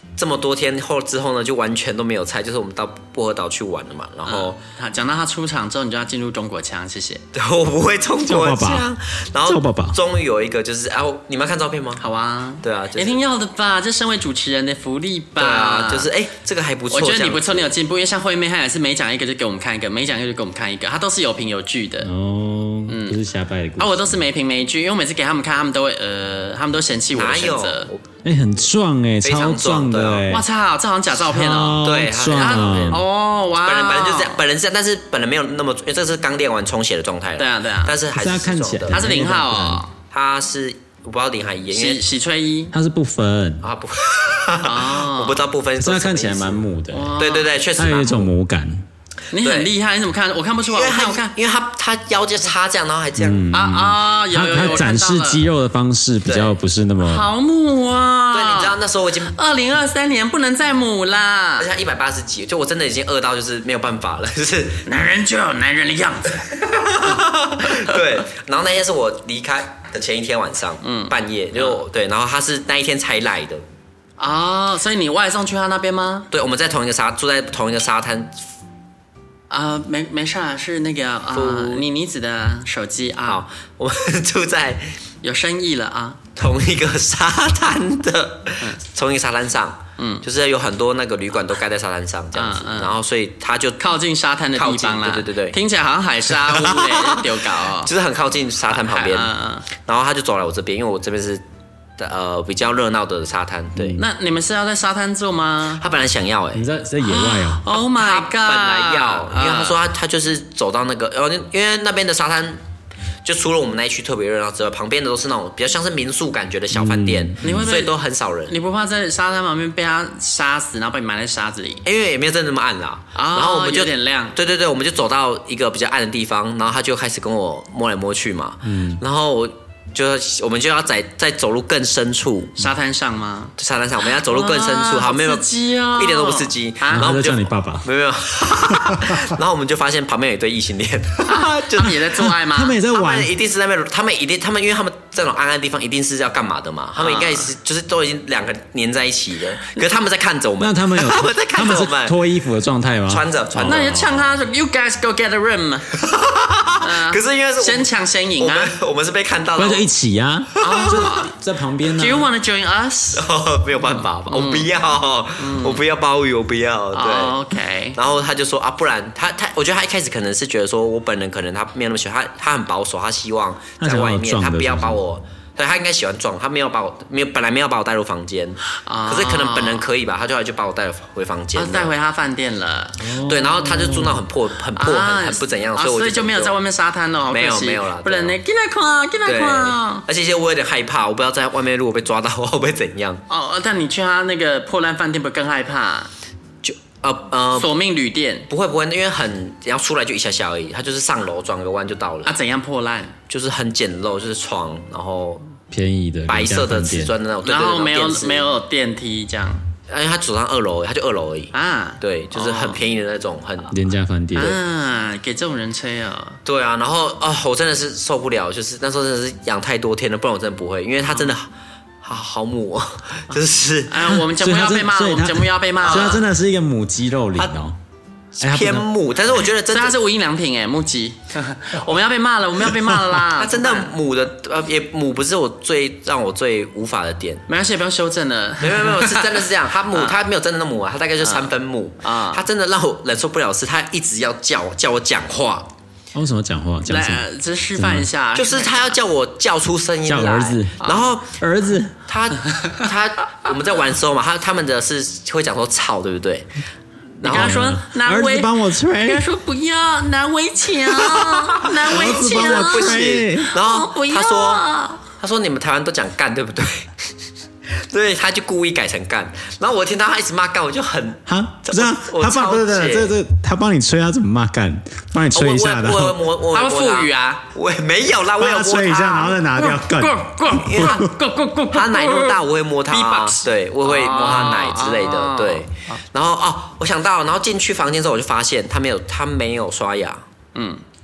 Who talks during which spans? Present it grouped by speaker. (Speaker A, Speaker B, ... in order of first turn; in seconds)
Speaker A: 0.2-4.6, 7.3-12.0, 12.6-13.2, 15.4-17.7, 27.1-28.0, 29.2-30.2, 31.8-33.0, 33.6-39.0, 40.1-42.0, 43.6-46.6, 47.2-48.3, 49.4-49.7, 50.6-53.5, 56.2-56.5, 58.3-59.3, 61.6-64.8, 66.6-73.6, 76.3-78.4, 81.3-81.8, 83.2-84.9, 86.3-93.8, 94.5-95.6, 96.4-101.4, 102.0-104.0, 105.8-106.6, 107.8-112.6, 113.2-118.5, 121.8-132.6, 133.6-142.0, 142.9-152.1, 153.1-153.9, 156.0-157.9, 158.4-159.9, 160.6-161.1, 163.2-167.3, 167.9-181.9, 183.2-186.6, 187.3-188.4, 189.2-193.2, 196.6-197.7, 198.5-202.3, 203.3-205.5, 206.3-208.5, 209.9-213.7, 216.4-221.5, 222.0-224.1, 225.8-226.2, 228.4-229.9, 233.3-237.4, 238.6-245.7, 248.3-251.3, 252.1-256.5, 257.2-257.6, 261.8-266.9, 267.8-273.1, 275.3-279.4, 280.6-281.1, 281.7-290.2
Speaker B: 4.2-7.2, 12.0-16.1, 16.9-22.1, 22.9-23.2, 23.8-27.9, 30.3-34.4, 37.4-38.0, 38.9-39.9, 41.7-42.7, 44.6-45.4, 46.9-47.5, 49.3-51.3, 53.5-55.4, 57.0-58.7, 59.3-61.7, 64.8-66.5, 70.8-71.8, 74.2-76.3, 79.5-83.4, 85.2-86.2, 90.0-90.2, 92.3-92.9, 93.8-97.9, 98.7-99.7, 104.0-105.8, 107.0-109.8, 117.4-117.9, 118.5-121.8, 123.1-124.3, 132.6-133.5, 134.1-137.1, 141.3-142.8, 147.0-147.5, 153.7-155.9, 156.8-158.7, 160.6-161.3, 162.0-163.2, 163.9-164.7, 165.4-165.8, 166.9-168.0, 178.7-179.8, 181.5-183.0, 184.8-190.1, 193.3-196.1, 197.5-198.5, 202.2-203.2, 207.4-209.6, 211.5-212.8, 214.3-216.4, 223.3-226.2, 229.7-233.9, 237.5-240.2, 241.2-242.4, 246.8-249.0, 250.8-251.1, 257.2-265.0, 276.5-277.5, 279.5-286.0, 290.5-290.8
Speaker C: 8.2-8.9, 9.4-10.0, 22.0-24.1, 28.2-30.4, 31.3-33.0, 38.1-39.8, 42.7-43.6, 45.8-47.2, 47.8-48.8, 53.2-57.2, 103.8-104.0, 106.5-107.6, 116.7-117.7, 128.6-129.0, 136.9-137.9, 142.3-143.3, 150.6-154.2, 159.6-162.3, 173.8-175.0, 183.0-184.2, 205.7-207.1, 213.7-214.6, 224.1-227.7, 228.4-228.9, 246.1-247.2, 247.8-248.1, 250.1-252.0, 257.3-259.2, 261.5-263.5, 271.3-276.2, 278.4-281.1